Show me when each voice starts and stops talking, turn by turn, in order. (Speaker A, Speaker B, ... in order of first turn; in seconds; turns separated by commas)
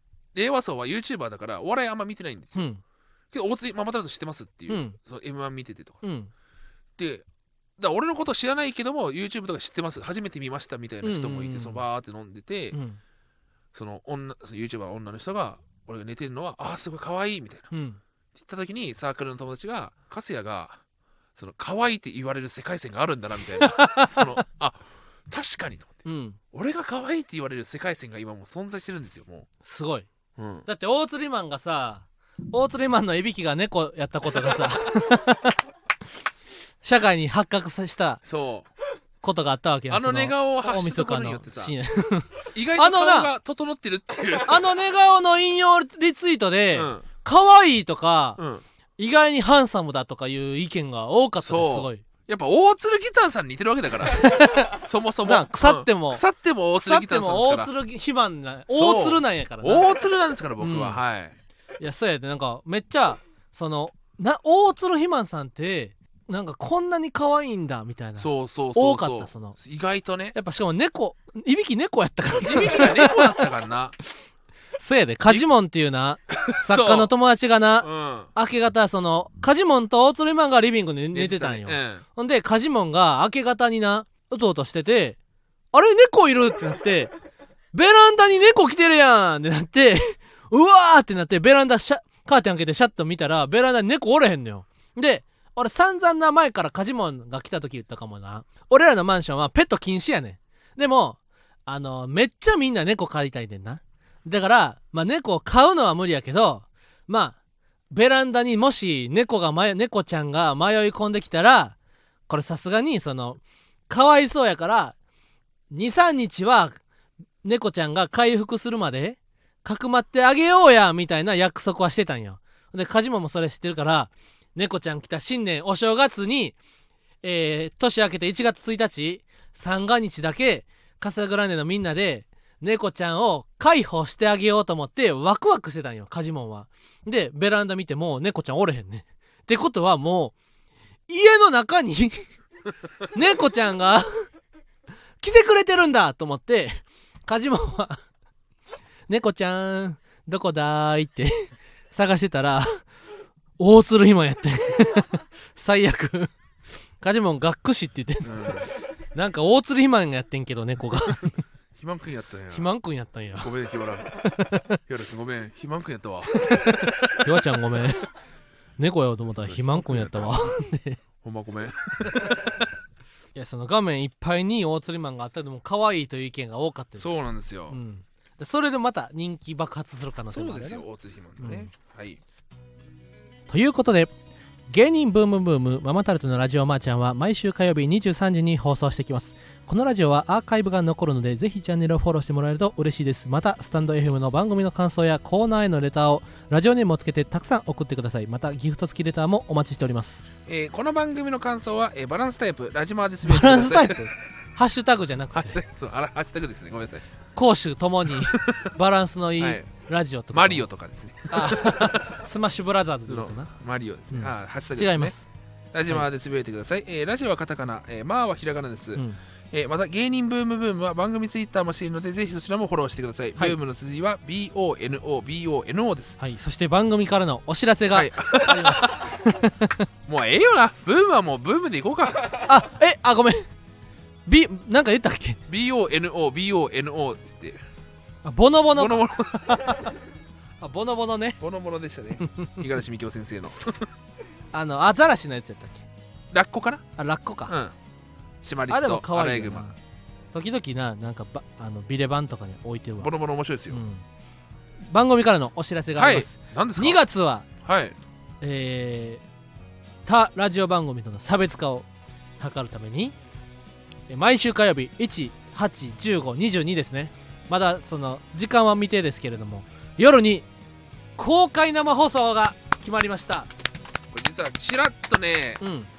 Speaker A: 0.3-2.7, Speaker B: 2.5-2.8, Speaker A: 3.3-6.0, Speaker B: 4.7-5.0, Speaker B: 6.0-6.3, Speaker A: 7.0-7.2, Speaker A: 7.8-12.8, Speaker B: 11.0-11.8, Speaker B: 12.7-13.0, Speaker A: 13.7-17.7, Speaker B: 17.7-18.0, Speaker A: 18.4-20.8, Speaker A: 21.4-29.5, Speaker B: 23.6-24.4, Speaker B: 26.1-26.4, Speaker B: 29.6-30.1, Speaker A: 30.4-30.7, Speaker B: 30.7-35.5, Speaker B: 36.8-38.2, Speaker A: 38.2-38.7, Speaker B: 39.2-43.3, Speaker A: 39.9-41.8, Speaker A: 42.5-44.6, Speaker B: 44.5-48.4, Speaker A: 46.7-47.1, Speaker A: 48.4-48.6, Speaker B: 49.0-52.0, Speaker A: 51.4-57.7, Speaker B: 54.0-56.2, Speaker B: 56.8-59.9, Speaker A: 58.7-61.4, Speaker B: 60.6-61.0, Speaker B: 61.8-69.5, Speaker A: 68.2-70.3, Speaker B: 70.3-73.3, Speaker A: 72.4-74.0, Speaker B: 74.8-85.2, Speaker A: 76.4-77.1, Speaker A: 77.8-78.3, Speaker A: 81.1-82.0, Speaker B: 85.7-87.1, Speaker B: 87.7-107.4, Speaker B: 107.9-111.8, Speaker B: 112.3-115.0, Speaker B: 115.7-116.8, Speaker B: 117.4-126.6, Speaker B: 127.2-140.3, Speaker B: 141.1-142.2, Speaker B: 143.1-144.1, Speaker B: 145.2-148.0, Speaker B: 149.1-151.3, Speaker B: 151.9-152.8, Speaker B: 153.6-156.3, Speaker B: 157.0-161.4, Speaker A: 158.2-158.7, Speaker A: 161.8-162.7, Speaker B: 162.5-163.5, Speaker A: 163.4-164.3, Speaker B: 164.1-164.8, Speaker A: 164.9-167.2, Speaker B: 166.4-168.1, Speaker B: 168.8-171.0, Speaker A: 169.4-170.4, Speaker A: 171.2-172.6, Speaker B: 173.3-177.1, Speaker A: 177.0-177.8, Speaker B: 177.7-180.8, Speaker A: 180.3-182.2, Speaker B: 181.4-181.7, Speaker B: 183.5-184.1, Speaker B: 184.7-200.2, Speaker A: 200.5-204.1, Speaker B: 203.2-205.6, Speaker A: 205.3-207.0, Speaker B: 207.3-210.7, Speaker A: 208.3-208.7, Speaker A: 209.4-209.7, Speaker A: 210.3-212.2, Speaker B: 211.3-213.5, Speaker A: 213.1-215.2, Speaker B: 214.1-215.3, Speaker A: 215.7-226.2, Speaker B: 226.2-229.9, Speaker A: 227.9-229.2, Speaker A: 230.1-232.4, Speaker B: 232.5-233.5, Speaker B: 234.3-235.4, Speaker A: 235.5-237.6, Speaker B: 238.2-239.9, Speaker A: 238.8-239.8, Speaker B: 240.6-241.4, Speaker A: 241.4-243.9, Speaker B: 242.2-242.6, Speaker B: 244.5-245.9, Speaker A: 246.3-246.8, Speaker B: 247.0-247.5, Speaker A: 247.5-247.7, Speaker A: 248.4-249.8, Speaker B: 248.7-249.8, Speaker B: 250.3-253.1, Speaker A: 253.0-253.8, Speaker B: 253.7-254.0, Speaker B: 254.9-257.5, Speaker A: 256.0-257.0, Speaker A: 257.6-258.0, Speaker B: 258.4-259.2, Speaker B: 260.1-261.9, Speaker B: 262.4-263.1, Speaker B: 264.1-270.5, Speaker B: 271.2-273.5, Speaker A: 274.1-275.6, Speaker B: 275.6-275.9